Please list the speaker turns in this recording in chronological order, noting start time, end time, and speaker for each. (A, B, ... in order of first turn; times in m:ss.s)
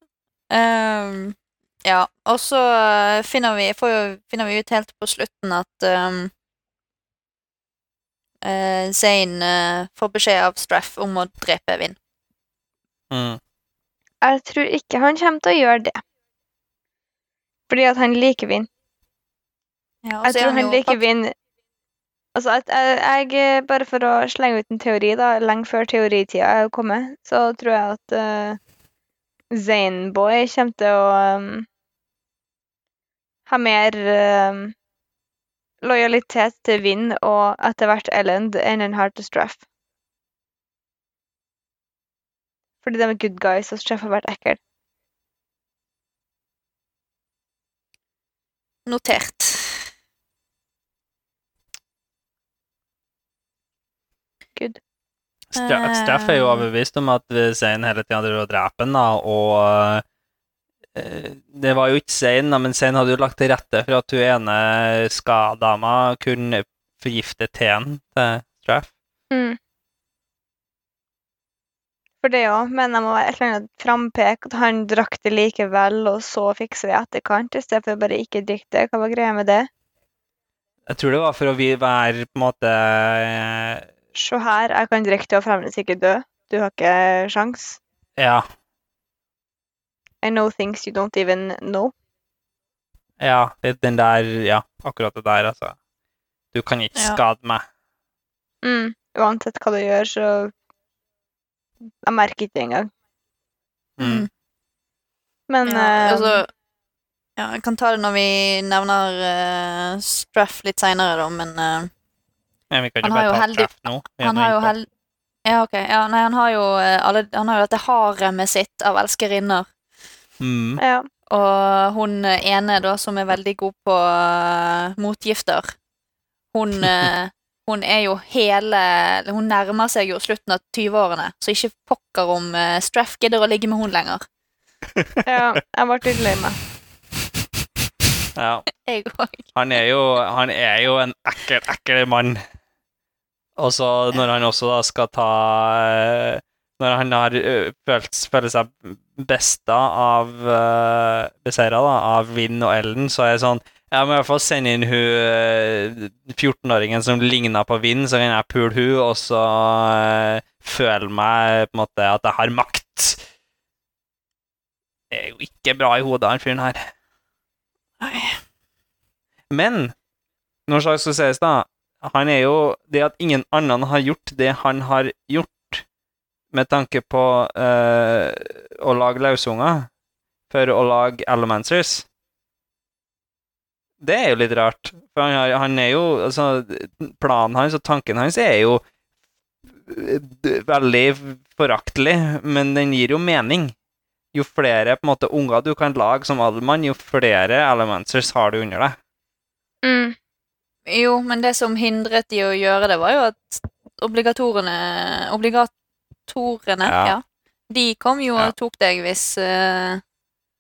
0:00.5-0:06.3 A
0:08.4-0:12.0 A
0:13.1-0:13.4 B
0:14.2-0:16.0 C
0:17.7-0:18.7 C
0:20.0-0:21.0 A
0:20.2-0:21.3 C
0:22.4-0:28.6 C
0:29.5-0:31.7 C
0:33.5-0:34.8 C
0:35.8-0:39.6 C
0:42.8-0:44.6 C
0:48.9-0:49.9 A
0:55.6-1:00.0 B
0:55.6-0:56.7 A
1:01.0-1:08.9 B
1:09.3-1:09.6 C
1:12.2-1:19.7 C
1:20.9-1:23.9 B
1:24.2-1:27.8 C
1:28.2-1:28.5 B
1:30.2-1:31.9 C
1:33.2-1:35.8 B
1:36.5-1:37.7 B
1:37.0-1:37.2 A
1:38.6-1:40.5 C
1:42.0-1:42.9 C
1:44.0-1:44.3 B
1:44.0-1:44.3 A
1:45.5-1:46.4 C
1:45.7-1:46.5 A
1:47.4-1:51.9 A
1:52.7-1:54.7 B
1:53.0-1:54.9 A
1:55.4-1:59.7 A
2:00.4-2:00.8 B
2:00.8-2:01.1 C
2:01.3-2:05.8 A
2:06.5-2:14.2 A
2:14.9-2:15.2 B
2:15.3-2:16.6 C
2:18.4-2:18.7 B
2:18.8-2:19.5 A
2:19.6-2:22.4 B
2:23.6-2:43.2 B
2:45.1-2:46.9 B
2:48.0-2:48.4 A
2:49.5-2:49.9 B
2:50.7-2:55.8 B
2:56.5-2:59.9 B
3:00.5-3:02.1 B
3:04.0-3:08.8 B
3:09.7-3:13.8 B
3:14.3-3:19.0 B
3:19.8-3:20.2 C
3:20.9-3:25.7 A
3:26.3-3:30.0 A
3:26.8-3:27.2 B